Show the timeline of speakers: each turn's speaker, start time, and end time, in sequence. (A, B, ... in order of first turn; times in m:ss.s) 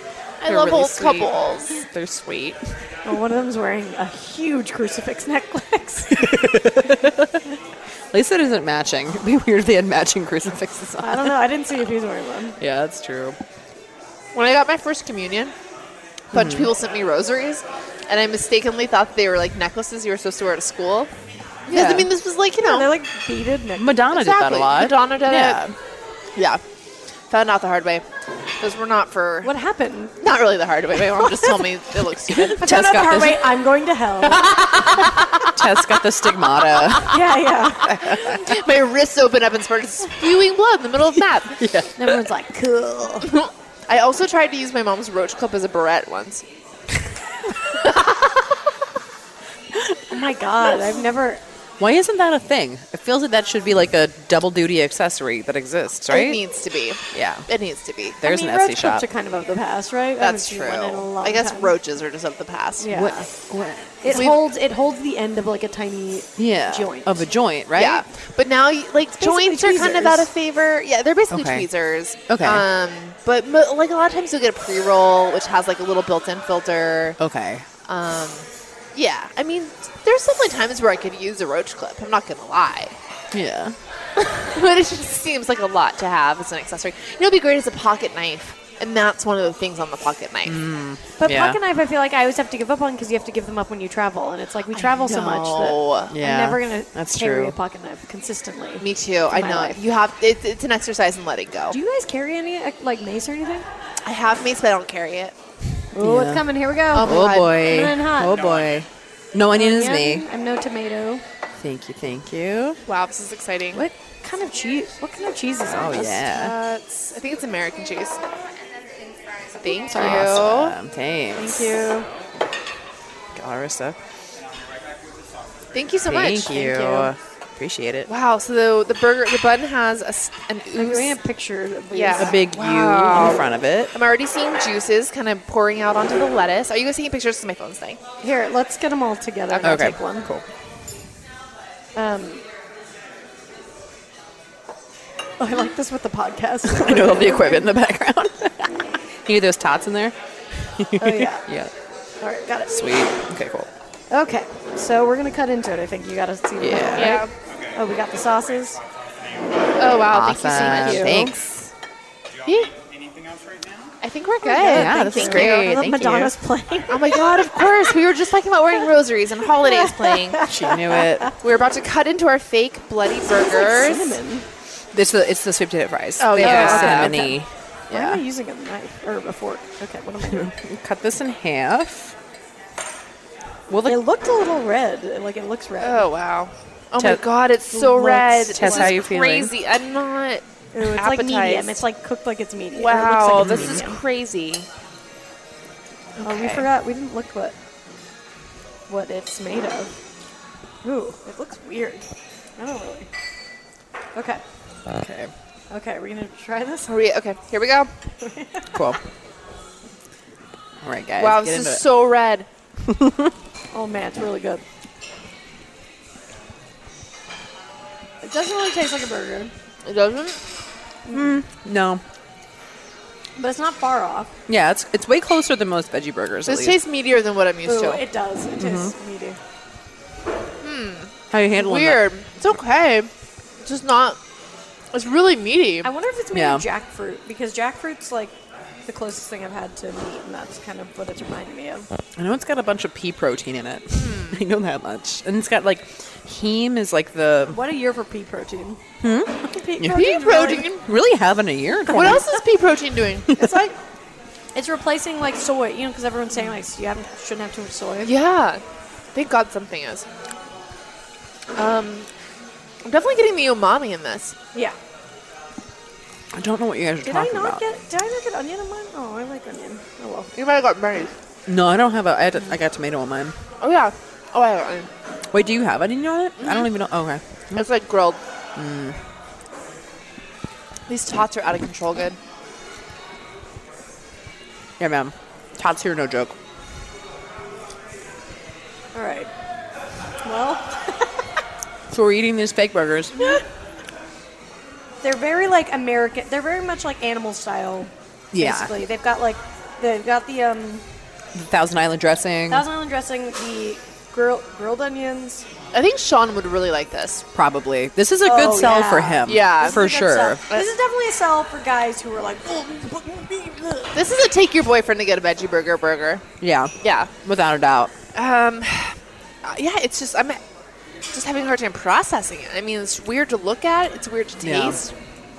0:00.4-0:02.7 A
0:00.4-0:01.8 B
0:03.0-0:06.4 C
0:06.1-0:07.4 A
0:08.1-0:11.4 A
0:11.0-0:12.6 C
0:12.6-0:13.4 A
0:14.3-0:15.5 B
0:16.3-0:16.7 A
0:16.3-0:21.1 B
0:21.7-0:22.1 A
0:21.7-0:22.9 B
0:22.6-0:24.0 C
0:23.8-0:25.7 A
0:24.1-0:25.6 B
0:26.4-0:26.6 B
0:27.3-0:28.0 B
0:28.6-0:29.5 B
0:29.4-0:30.1 C
0:30.2-0:32.6 B
0:32.3-0:33.5 A
0:32.5-0:34.6 C
0:34.3-0:35.6 B
0:35.0-0:37.2 A
0:36.6-0:37.3 B
0:37.1-0:38.0 C
0:37.8-0:38.6 A
0:37.8-0:41.6 B
0:41.6-0:42.2 A
0:42.0-0:43.3 C
0:43.2-0:46.4 B
0:47.8-0:48.4 B
0:50.1-0:51.4 C
0:51.8-0:56.4 A
0:56.1-0:58.2 B
0:57.1-0:57.5 A
0:58.2-0:59.0 A
0:58.2-1:01.7 C
1:00.2-1:02.9 B
1:02.8-1:03.3 C
1:02.9-1:04.3 A
1:04.0-1:07.3 C
1:04.1-1:04.4 B
1:06.4-1:08.0 A
1:07.7-1:17.2 B
1:09.2-1:10.3 C
1:11.3-1:11.7 A
1:12.3-1:12.6 A
1:17.2-1:17.6 A
1:17.8-1:23.0 B
1:23.3-1:23.8 A
1:24.2-1:30.6 B
1:30.4-1:31.6 A
1:31.2-1:39.8 C
1:34.7-1:36.1 B
1:36.1-1:37.6 A
1:38.8-1:41.8 B
1:41.7-1:43.6 C
1:44.0-1:45.3 B
1:45.9-1:50.2 A
1:46.0-1:48.4 C
1:46.9-1:47.6 B
1:48.2-1:48.8 D
1:49.5-1:51.2 C
1:51.6-1:52.8 A
1:52.8-1:53.8 B
1:53.7-1:56.2 C
1:55.6-1:56.5 A
1:56.2-1:58.2 B
1:59.6-2:00.7 B
1:59.8-2:00.3 C
1:59.9-2:01.7 A
2:01.3-2:02.1 C
2:03.4-2:04.0 A
2:04.3-2:06.1 D
2:05.7-2:07.1 B
2:06.1-2:08.1 A
2:08.1-2:11.1 B
2:10.7-2:12.4 C
2:11.9-2:18.0 B
2:12.2-2:13.9 A
2:18.2-2:20.3 C
2:19.5-2:19.9 B
2:19.6-2:20.4 A
2:21.9-2:22.4 C
2:25.4-2:27.7 C
2:26.6-2:28.7 A
2:29.2-2:31.7 A
2:31.0-2:31.4 C
2:32.2-2:32.8 C
2:32.7-2:33.7 A
2:34.1-2:38.8 C
2:36.6-2:37.2 A
2:37.0-2:37.3 B
2:37.5-2:40.3 D
2:39.8-2:41.3 B
2:40.1-2:41.6 A
2:40.5-2:41.3 C
2:42.3-2:44.0 D
2:42.4-2:42.7 B
2:44.0-2:45.8 B
2:44.4-2:47.9 C
2:44.6-2:46.3 A
2:46.9-2:50.4 B
2:49.6-2:51.3 C
2:50.4-2:51.3 A
2:51.4-2:54.2 B
2:53.3-2:54.4 C
2:54.9-2:58.2 A
2:56.2-2:57.3 B
2:56.4-2:57.4 C
2:57.9-3:00.5 C
3:00.2-3:02.1 A
3:03.7-3:04.0 A
3:03.8-3:06.1 C
3:05.8-3:11.8 B
3:07.7-3:09.0 C
3:08.5-3:09.5 A
3:10.7-3:14.0 C
3:12.8-3:14.7 B
3:13.4-3:13.8 A
3:16.2-3:16.7 B
3:16.2-3:17.6 C
3:18.9-3:19.9 C
3:20.8-3:22.0 C
3:22.6-3:23.1 C
3:24.1-3:24.4 C
3:24.9-3:25.3 A
3:25.7-3:26.9 C
3:26.9-3:27.9 B
3:28.2-3:28.8 C
3:28.7-3:29.0 A
3:30.8-3:31.8 A
3:31.2-3:32.5 B
3:32.8-3:33.3 A
3:33.7-3:34.6 C
3:38.2-3:39.5 C
3:39.8-3:40.4 B
3:41.1-3:41.4 C
3:41.1-3:42.0 A
3:43.4-3:44.3 C
3:44.5-3:46.8 A
3:46.4-3:48.0 B
3:47.6-3:49.4 C
3:48.6-3:48.9 A
3:50.6-3:53.1 B
3:51.3-3:52.1 A
3:53.6-3:54.2 B
3:54.9-3:55.9 B
3:55.8-4:01.9 C
3:56.3-3:56.6 A
4:02.2-4:07.6 A
4:03.9-4:04.4 B
4:07.5-4:08.8 C
4:09.0-4:10.1 A
4:09.3-4:10.7 C
4:09.8-4:10.8 B
4:10.6-4:12.2 A
4:11.9-4:12.3 C
4:11.9-4:13.7 B
4:14.5-4:18.1 C
4:18.0-4:18.6 B
4:19.1-4:20.0 B
4:21.6-4:22.1 B
4:22.8-4:24.3 B
4:26.3-4:27.6 A
4:27.0-4:30.3 C
4:30.3-4:31.1 B
4:31.4-4:33.4 A
4:33.6-4:34.9 B
4:35.3-4:37.6 A
4:36.4-4:36.7 B
4:37.5-4:38.2 B
4:38.6-4:39.0 A
4:40.9-4:42.2 B
4:44.8-4:46.4 A
4:48.9-4:49.3 C
4:50.2-4:51.2 C
4:51.9-4:53.4 A
4:53.2-4:53.4 C
4:55.0-5:00.8 C
4:58.3-4:58.7 A
5:01.3-5:02.6 A
5:02.5-5:05.4 C
5:05.7-5:07.2 B
5:07.3-5:10.4 A
5:08.2-5:14.0 C
5:09.2-5:09.8 B
5:13.9-5:16.3 B
5:16.4-5:17.9 A
5:16.8-5:17.1 B
5:18.1-5:20.4 B
5:21.1-5:24.9 B
5:24.4-5:24.8 A